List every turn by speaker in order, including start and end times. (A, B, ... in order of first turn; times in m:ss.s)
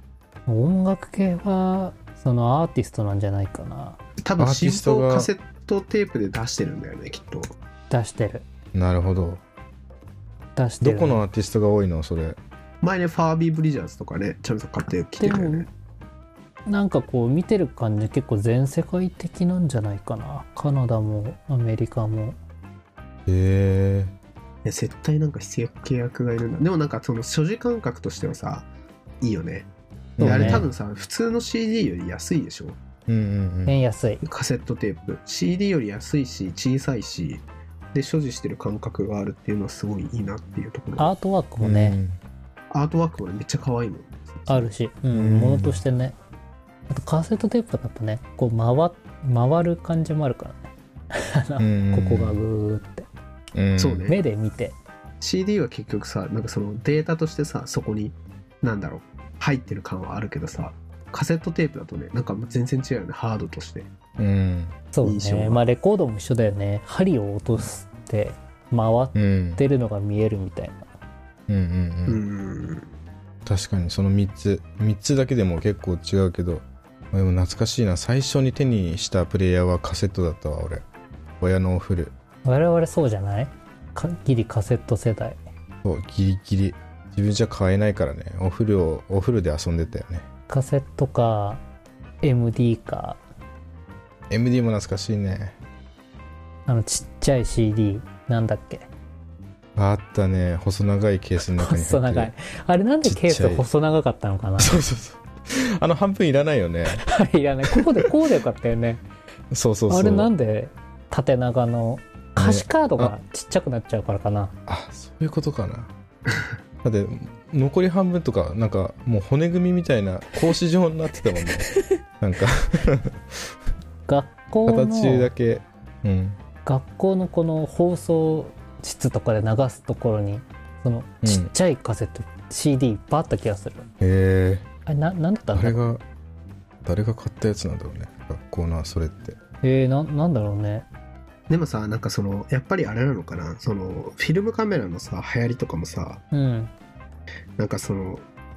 0:00.5-0:04.0 A
0:04.2-0:07.4 B
0:04.4-0:05.3 C
0:07.9-0:08.4 A
0:08.7-0:09.4 C
0:10.6-0:11.2 A
0:10.8-0:12.4 C
0:12.8-0:15.7 B
0:15.2-0:15.7 A
0:16.6-0:22.4 A
0:23.3-0:24.1 C
0:24.6-0:28.7 B
0:29.2-0:29.7 B
0:30.2-0:30.6 C
0:30.2-0:30.6 A
0:30.2-0:32.8 B
0:33.1-0:33.8 C
0:33.6-0:34.2 A
0:34.2-0:41.1 B
0:41.0-0:42.0 A
0:41.6-0:42.2 C
0:42.7-0:44.7 B
0:44.5-0:46.2 A
0:45.1-0:45.8 C
0:46.9-0:53.1 A
0:51.6-0:52.4 C
0:53.5-0:54.1 C
0:53.8-0:54.2 B
0:54.1-0:54.8 A
0:55.2-1:03.9 B
1:04.2-1:04.8 C
1:04.9-1:10.9 A
1:05.0-1:05.6 B
1:09.1-1:09.6 C
1:11.5-1:12.2 C
1:12.0-1:12.9 B
1:13.4-1:20.8 C
1:21.4-1:22.1 C
1:22.4-1:25.4 A
1:25.8-1:30.2 C
1:30.5-1:31.6 A
1:32.2-1:33.2 A
1:34.3-1:35.6 C
1:36.7-1:38.9 A
1:39.8-1:42.3 C
1:41.5-1:44.8 A
1:43.0-1:43.6 C
1:44.6-1:47.0 C
1:46.9-1:49.0 A
1:49.5-1:50.3 C
1:49.9-1:54.5 A
1:52.4-1:53.1 C
1:54.7-1:55.9 C
1:56.8-2:01.7 C
2:01.4-2:01.8 A
2:02.2-2:03.4 C
2:04.1-2:05.3 A
2:04.6-2:06.4 C
2:06.6-2:13.9 A
2:11.2-2:11.5 C
2:14.0-2:14.6 C
2:14.8-2:15.8 A
2:15.5-2:16.0 C
2:16.8-2:19.4 C
2:19.6-2:20.9 A
2:21.5-2:26.2 B
2:26.3-2:26.7 A
2:27.6-2:28.3 B